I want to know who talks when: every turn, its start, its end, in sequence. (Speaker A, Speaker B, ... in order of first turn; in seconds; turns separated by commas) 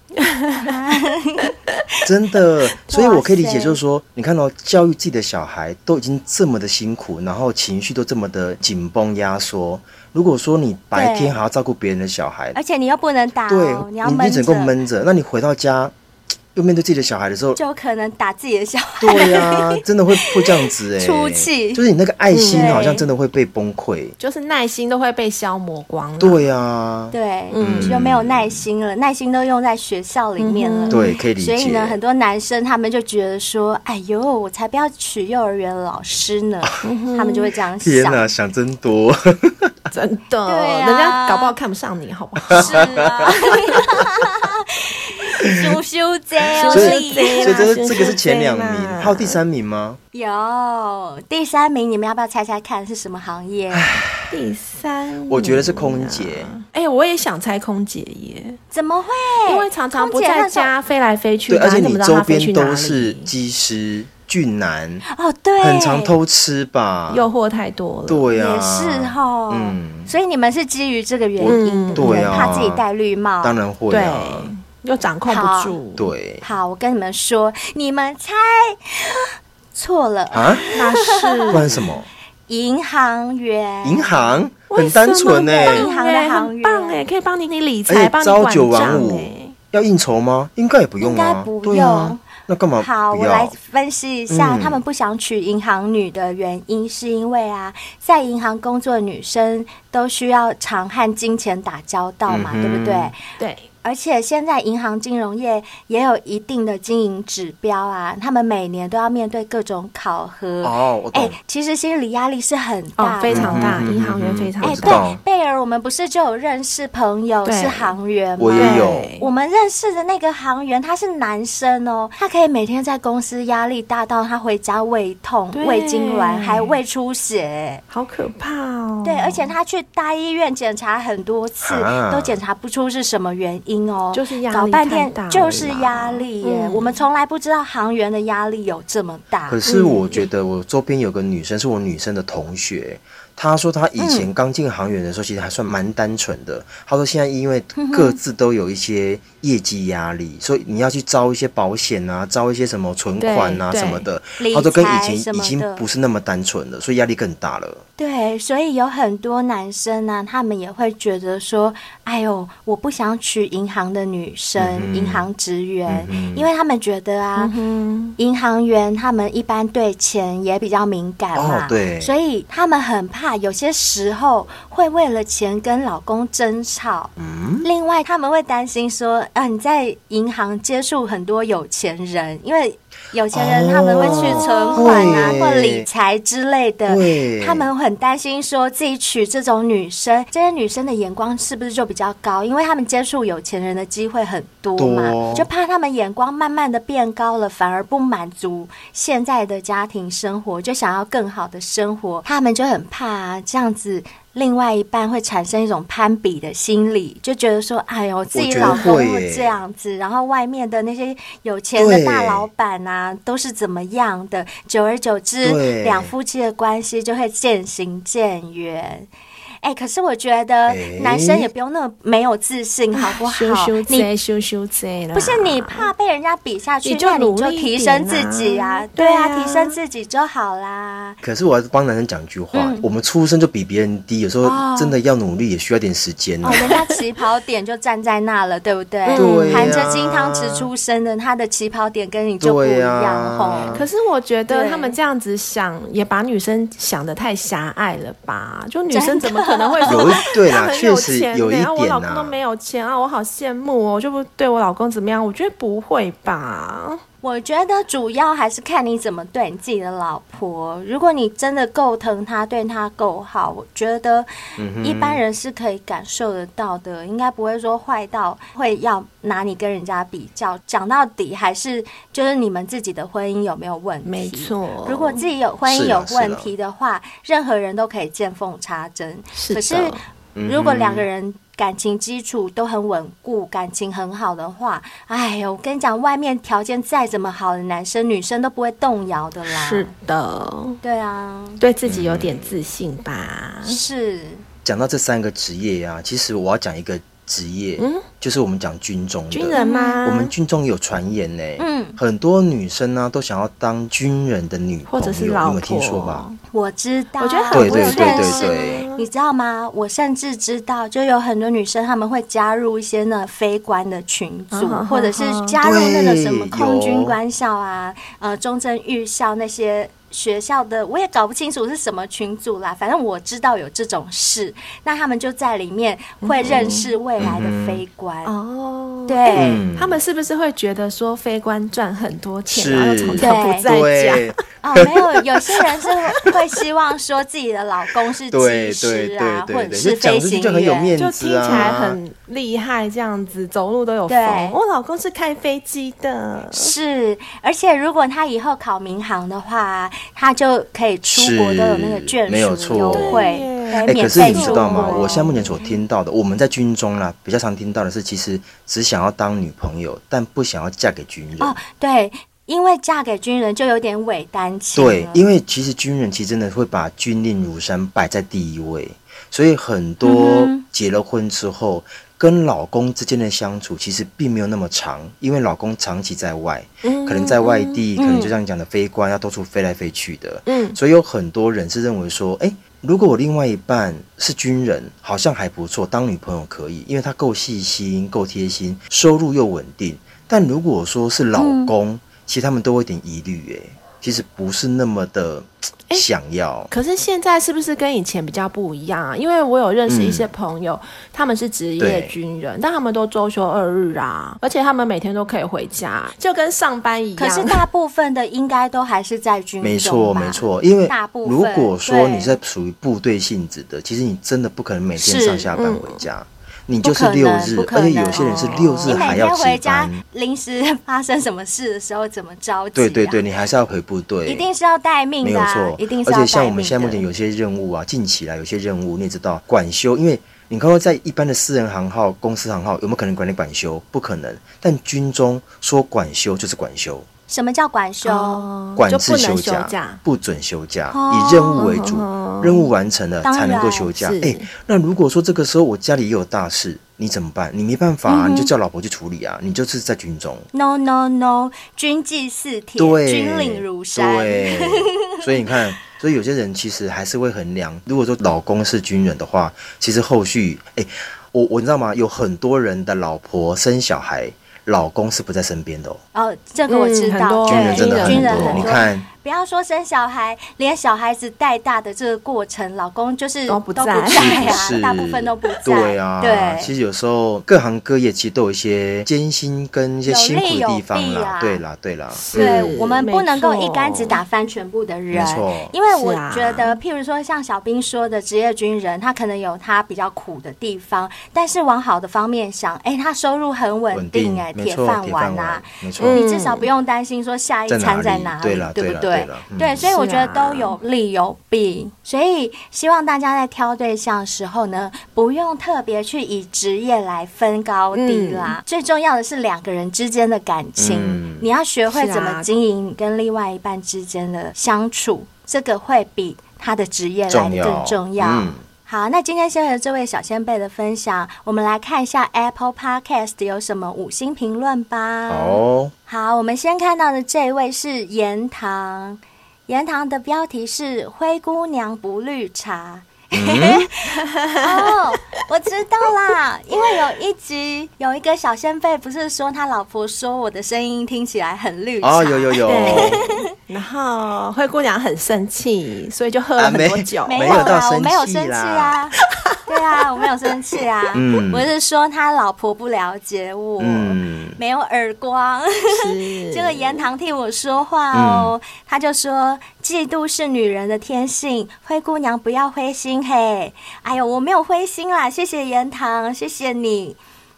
Speaker A: 0.2-0.8, Speaker B: 0.5-1.5, Speaker C: 2.0-12.6, Speaker B: 2.9-3.8, Speaker B: 10.9-11.3, Speaker B: 12.5-14.7, Speaker C: 13.5-15.9, Speaker C: 16.5-17.6, Speaker B: 17.6-21.8, Speaker C: 19.0-24.1, Speaker A: 22.3-22.8, Speaker B: 22.5-23.1, Speaker A: 24.2-26.5, Speaker C: 26.2-28.6, Speaker B: 27.1-38.3, Speaker A: 27.5-27.9, Speaker A: 30.4-31.0, Speaker C: 30.9-32.0, Speaker A: 36.8-37.5, Speaker C: 37.8-39.7, Speaker A: 39.9-43.5, Speaker B: 40.5-41.5, Speaker C: 42.5-43.3, Speaker B: 42.5-47.8, Speaker C: 45.4-45.7, Speaker A: 46.5-49.4, Speaker C: 46.6-50.0, Speaker B: 50.1-54.0, Speaker C: 53.7-54.4, Speaker A: 54.3-58.6, Speaker C: 55.3-56.5, Speaker B: 58.7-60.7, Speaker A: 59.5-63.3, Speaker C: 61.5-65.0, Speaker B: 65.1-66.1, Speaker C: 65.6-67.3, Speaker A: 67.1-68.2, Speaker C: 68.1-70.1, Speaker B: 68.3-73.6, Speaker C: 71.4-72.8, Speaker A: 71.4-72.5, Speaker C: 73.4-74.5, Speaker A: 73.9-76.1, Speaker B: 75.3-75.7, Speaker C: 76.0-76.4, Speaker B: 76.4-81.8, Speaker C: 80.3-80.7, Speaker A: 80.7-81.6, Speaker C: 81.5-82.1, Speaker B: 82.5-84.3, Speaker C: 83.8-85.8, Speaker A: 84.7-89.5, Speaker B: 85.6-87.0, Speaker C: 87.9-93.5, Speaker B: 91.0-92.2, Speaker B: 92.8-103.2, Speaker C: 94.3-94.8, Speaker C: 102.3-103.1, Speaker A: 103.4-103.7, Speaker B: 103.8-113.8, Speaker C: 110.6-111.3, Speaker A: 113.0-115.0, Speaker C: 113.3-115.2, Speaker B: 114.6-127.8, Speaker A: 117.4-117.9, Speaker C: 118.4-119.1, Speaker A: 118.6-119.3, Speaker A: 125.5-126.7, Speaker A: 127.9-129.5, Speaker B: 129.0-139.6, Speaker C: 131.6-132.4, Speaker A: 134.1-137.0, Speaker C: 135.4-135.7, Speaker C: 139.5-157.8, Speaker A: 139.7-140.3, Speaker B: 144.0-144.3, Speaker B: 147.7-148.2, Speaker A: 153.2-154.1, Speaker B: 154.4-155.8, Speaker B: 158.0-167.5, Speaker C: 164.6-165.2, Speaker C: 165.9-166.5, Speaker A: 167.4-168.2, Speaker B: 168.2-177.1, Speaker C: 171.3-172.1, Speaker C: 177.2-177.6, Speaker B: 177.6-219.1, Speaker C: 183.3-185.8, Speaker A: 184.0-185.3, Speaker C: 186.9-187.7, Speaker C: 194.8-195.5, Speaker C: 208.3-209.6, Speaker C: 211.8-212.5, Speaker C: 215.4-216.1, Speaker B: 219.6-224.1, Speaker C: 220.7-221.5, Speaker A: 222.9-225.9, Speaker B: 225.1-231.2, Speaker A: 226.8-229.8, Speaker C: 231.2-236.7, Speaker B: 232.5-232.8, Speaker A: 234.4-235.0, Speaker B: 236.4-243.8, Speaker A: 236.7-237.0, Speaker A: 239.0-239.8, Speaker C: 239.1-240.7, Speaker C: 242.4-243.8, Speaker A: 243.7-257.0, Speaker B: 244.5-245.0, Speaker B: 248.9-250.2, Speaker C: 249.9-252.4, Speaker B: 257.2-264.3, Speaker C: 264.6-265.2, Speaker B: 264.8-289.9, Speaker A: 274.0-275.3, Speaker C: 275.6-276.5, Speaker A: 279.3-280.0, Speaker C: 280.4-281.1, Speaker A: 289.5-290.8, Speaker B: 290.8-291.6, Speaker A: 291.6-293.8, Speaker C: 291.8-292.6, Speaker B: 293.6-294.4, Speaker C: 294.6-306.2, Speaker A: 297.8-298.1, Speaker A: 299.3-300.3, Speaker B: 299.6-300.0, Speaker B: 301.6-302.0, Speaker A: 304.9-306.4, Speaker B: 306.5-328.3, Speaker A: 307.2-309.1, Speaker C: 307.5-308.9, Speaker A: 314.5-315.5, Speaker C: 315.6-317.1, Speaker A: 326.2-326.9, Speaker C: 327.2-327.8, Speaker A: 328.2-334.3, Speaker B: 329.1-329.6, Speaker C: 329.3-330.0, Speaker C: 332.5-334.9, Speaker B: 333.1-333.7, Speaker B: 334.6-340.9, Speaker C: 338.3-342.0, Speaker A: 341.0-346.7, Speaker B: 341.4-341.7, Speaker B: 344.1-344.6, Speaker B: 346.5-355.3, Speaker C: 351.1-353.2, Speaker A: 352.9-355.8, Speaker C: 353.9-361.5, Speaker B: 361.4-365.2, Speaker C: 364.7-396.7, Speaker B: 370.0-370.6, Speaker A: 376.8-377.8, Speaker B: 378.0-378.3, Speaker A: 380.4-380.8, Speaker B: 391.4-391.7, Speaker A: 396.7-407.6, Speaker C: 399.9-400.3, Speaker C: 401.8-402.1, Speaker B: 407.2-412.4, Speaker C: 409.6-420.0, Speaker B: 415.0-415.5, Speaker A: 415.5-416.0, Speaker B: 416.8-423.2, Speaker A: 418.1-419.1, Speaker C: 422.8-424.4, Speaker B: 424.3-427.0, Speaker C: 425.2-437.1, Speaker B: 437.3-438.4, Speaker A: 438.0-440.0, Speaker C: 438.8-450.5, Speaker B: 440.9-441.7, Speaker A: 441.6-442.6, Speaker B: 443.2-443.9, Speaker A: 444.0-444.5, Speaker B: 448.1-448.5, Speaker B: 450.5-455.5, Speaker C: 452.8-466.0, Speaker B: 466.1-476.7, Speaker A: 466.7-468.7, Speaker C: 467.4-469.1, Speaker A: 473.5-474.6, Speaker C: 474.1-482.6, Speaker B: 480.1-481.6, Speaker A: 482.1-484.2, Speaker B: 482.3-534.0, Speaker C: 485.1-485.7, Speaker A: 485.9-486.8, Speaker C: 493.9-496.2, Speaker A: 496.0-496.7, Speaker C: 497.7-499.9, Speaker A: 499.8-500.8, Speaker A: 507.9-508.6, Speaker C: 510.8-511.4, Speaker A: 511.9-512.5, Speaker C: 517.3-518.6, Speaker C: 525.3-525.9, Speaker C: 533.3-533.9, Speaker A: 534.0-535.0, Speaker B: 534.6-543.4, Speaker C: 542.0-543.3, Speaker A: 542.6-547.7, Speaker C: 546.6-549.0, Speaker B: 547.3-567.2, Speaker A: 549.4-549.6, Speaker C: 551.1-551.7, Speaker C: 553.8-554.6, Speaker A: 555.9-557.0, Speaker C: 558.1-558.5